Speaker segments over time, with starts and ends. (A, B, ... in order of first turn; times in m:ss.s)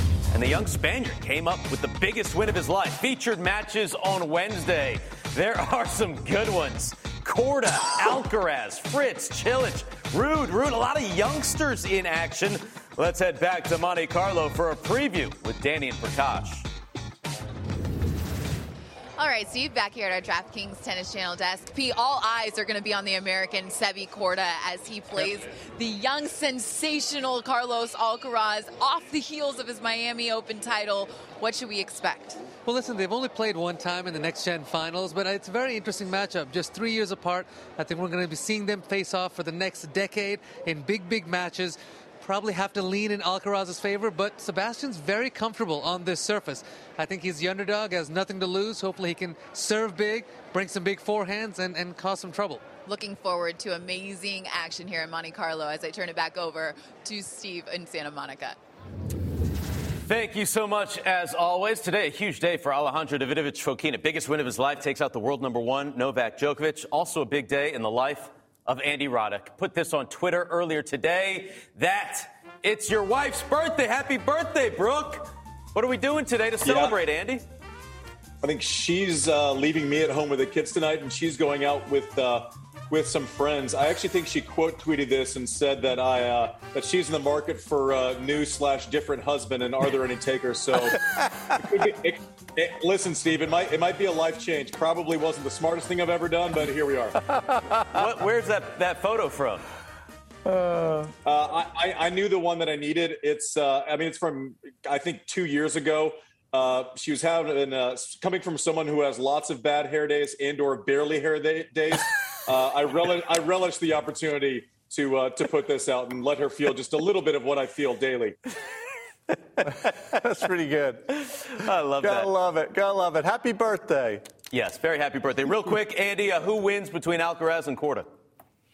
0:00.3-0:16.6 A
0:19.2-0:32.5 B
0:32.6-0:52.7 C
0:52.8-0:58.6 B
1:00.0-1:17.4 A
1:16.6-1:16.9 D
1:18.4-1:37.2 D
1:37.9-1:39.6 A
1:41.2-1:58.4 D
1:59.6-2:01.3 E
2:01.5-2:02.3 A
2:02.0-2:04.2 E
2:04.5-2:08.1 A